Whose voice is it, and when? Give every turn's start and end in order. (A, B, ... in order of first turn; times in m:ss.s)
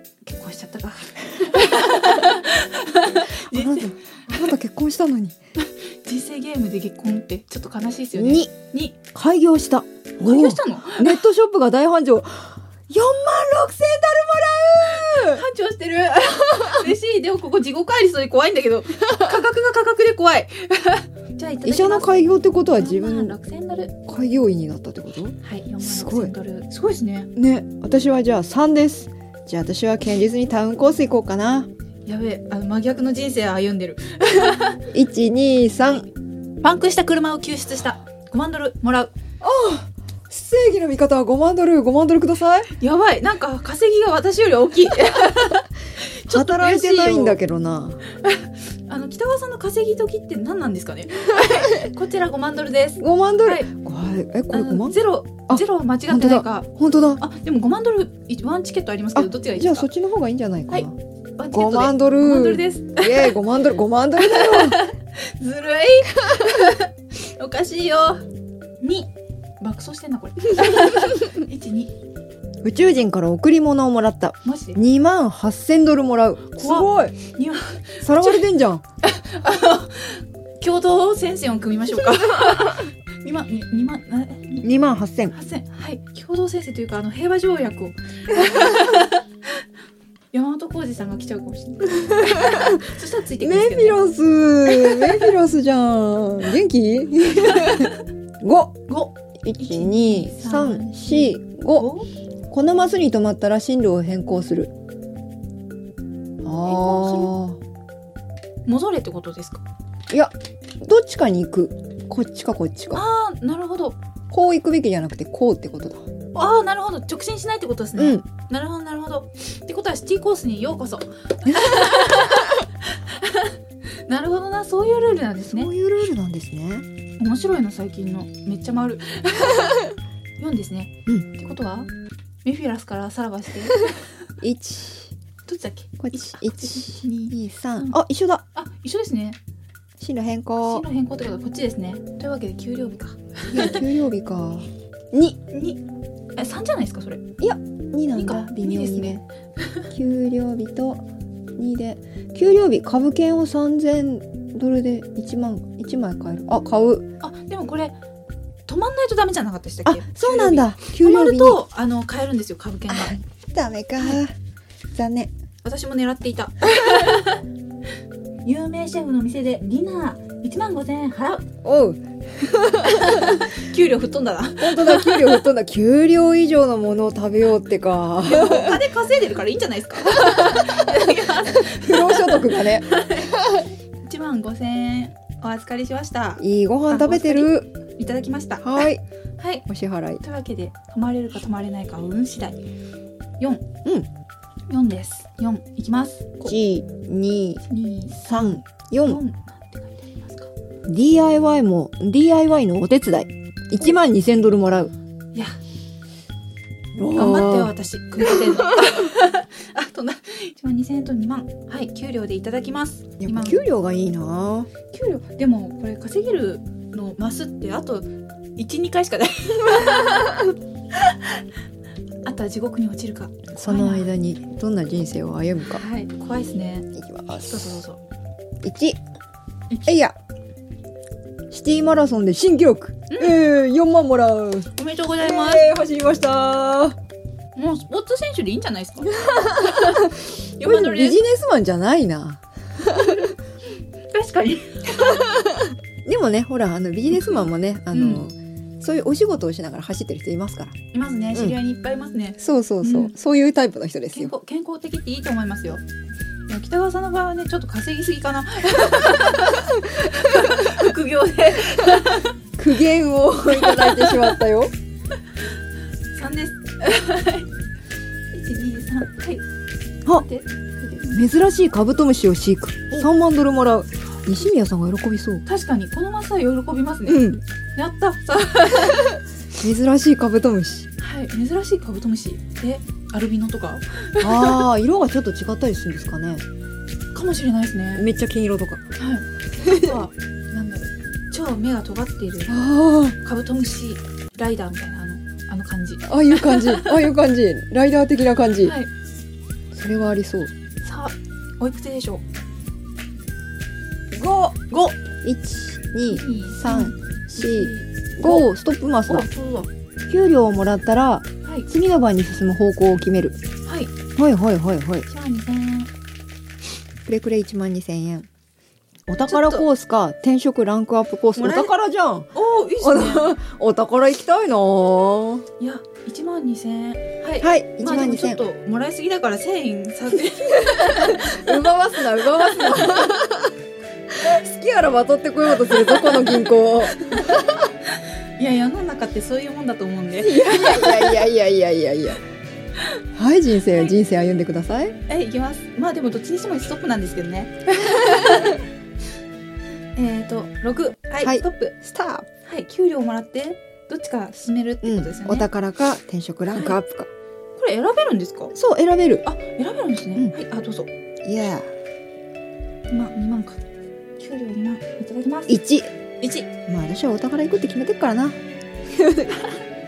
0:00.2-0:03.9 A
0:03.5-0:05.4 B
0:05.6-0:09.0 A
0:08.2-0:08.5 B
0:09.1-0:15.4 B
0:10.2-0:11.2 A
0:14.9-0:22.1 A
0:21.6-0:23.3 B
0:22.7-0:23.9 A
0:24.1-0:26.3 B
0:25.4-0:27.3 A
0:27.4-0:31.7 B
0:32.1-0:34.8 A
0:34.9-0:36.1 B
0:36.6-0:39.1 A
0:39.4-0:42.7 B
0:42.8-0:47.4 A
0:46.3-0:48.0 B
0:48.2-0:53.7 A
0:51.4-0:51.9 B
0:53.0-0:57.2 B
0:54.5-0:59.9 A
0:59.1-1:00.9 B
1:01.4-1:03.3 A
1:01.5-1:04.8 B
1:04.2-1:08.2 A
1:08.8-1:11.9 A
1:12.6-1:17.1 B
1:14.4-1:14.8 A
1:16.6-1:18.4 A
1:18.0-1:18.8 B
1:19.0-1:24.6 A
1:24.6-1:25.3 B
1:25.3-1:29.2 A
1:30.3-1:34.0 A
1:32.1-1:32.8 B
1:33.4-1:38.8 B
1:34.7-1:35.2 A
1:37.5-1:37.9 A
1:38.9-1:42.1 A
1:39.4-1:41.9 B
1:42.5-1:44.7 B
1:46.4-1:47.6 B
1:46.6-1:47.3 A
1:48.6-1:49.6 A
1:50.1-1:53.0 B
1:52.9-1:54.0 A
1:54.3-1:56.1 B
1:56.3-2:03.5 A
1:58.0-1:58.2 B
2:01.5-2:01.9 B
2:04.0-2:05.7 A
2:05.4-2:06.8 B
2:07.2-2:11.9 A
2:12.4-2:14.0 A
2:14.4-2:15.1 B
2:15.5-2:18.0 A
2:16.0-2:18.4 B
2:18.5-2:19.4 A
2:20.0-2:20.8 B
2:20.6-2:23.8 A
2:23.5-2:25.4 B
2:25.5-2:25.8 A
2:26.4-2:27.2 A
2:27.4-2:29.2 B
2:28.1-2:29.2 A
2:29.9-2:31.0 B
2:31.6-2:37.1 B
2:37.2-2:37.9 A
2:38.7-2:43.1 A
2:39.8-2:41.6 B
2:42.9-2:44.3 B
2:44.9-2:45.3 B
2:45.6-2:47.4 A
2:48.4-2:51.5 A
2:51.6-2:53.4 B
2:52.8-2:55.3 A
2:54.6-2:58.8 B
2:58.2-3:03.4 A
3:00.2-3:00.8 B
3:01.5-3:03.6 B
3:04.0-3:08.9 A
3:06.4-3:07.7 B
3:08.6-3:09.0 B
3:09.4-3:09.6 A
3:09.7-3:10.2 B
3:10.2-3:12.6 A
3:13.4-3:13.6 A
3:14.7-3:16.5 A
3:16.4-3:17.6 B
3:17.6-3:20.5 A
3:18.2-3:19.2 B
3:20.9-3:24.9 B
3:27.0-3:29.0 B
3:27.1-3:33.6 A
3:33.2-3:34.7 B
3:34.9-3:41.4 A
3:42.2-3:44.1 A
3:43.6-3:45.8 B
3:45.7-3:46.9 A
3:46.9-3:47.8 B
3:47.4-3:48.0 A
3:48.6-3:49.0 B
3:49.7-3:50.0 A
3:49.8-3:50.2 B
3:51.5-3:57.0 B
3:53.1-3:53.4 A
3:54.8-3:55.7 A
3:57.6-4:01.2 A
3:59.1-4:03.3 B
4:02.9-4:03.3 A
4:04.1-4:05.3 A
4:05.0-4:10.8 B
4:07.2-4:08.2 A
4:10.9-4:13.1 A
4:12.4-4:14.3 B
4:14.1-4:15.8 A
4:16.5-4:22.3 A
4:19.0-4:20.7 B
4:22.6-4:24.7 B
4:23.5-4:24.4 A
4:26.1-4:27.5 A
4:28.3-4:29.4 A
4:30.1-4:31.2 A
4:31.1-4:35.4 B
4:35.4-4:39.2 A
4:37.0-4:37.4 B
4:39.6-4:40.9 B
4:41.0-4:44.6 A
4:44.2-4:46.4 B
4:47.1-4:48.1 A
4:48.0-4:48.8 B
4:49.0-4:52.6 A
4:49.6-4:50.0 B
4:52.5-4:53.2 B
4:53.2-4:57.1 A
4:56.0-4:58.8 B
4:58.6-4:58.9 A
4:59.7-5:00.5 B
5:00.8-5:02.2 A
5:04.1-5:04.6 B
5:04.7-5:05.0 A
5:05.2-5:09.3 B
5:06.1-5:08.5 A
5:09.1-5:09.7 A
5:10.1-5:13.4 B
5:13.6-5:13.9 A
5:14.2-5:15.0 B
5:15.1-5:15.9 A
5:17.0-5:18.3 B
5:19.1-5:25.4 B
5:19.3-5:19.6 A
5:21.4-5:21.7 A
5:22.3-5:23.3 A
5:25.6-5:33.1 A
5:27.4-5:28.4 B
5:30.5-5:33.5 B
5:34.1-5:37.7 B
5:35.7-5:36.4 A
5:36.9-5:41.3 A
5:40.2-5:42.2 B
5:43.1-5:45.0 B
5:45.1-5:48.6 A
5:48.1-5:48.5 B
5:50.0-5:51.7 A
5:51.2-5:52.2 B
5:52.4-5:55.5 A
5:54.8-5:57.1 B
5:56.5-5:56.8 A
5:57.6-5:58.5 A
5:58.5-5:59.2 B
5:59.2-6:00.9 A
6:01.2-6:01.7 B
6:02.9-6:03.6 A
6:04.2-6:05.6 A
6:05.5-6:05.9 B
6:06.2-6:06.5 A
6:06.7-6:08.4 B
6:08.9-6:09.4 B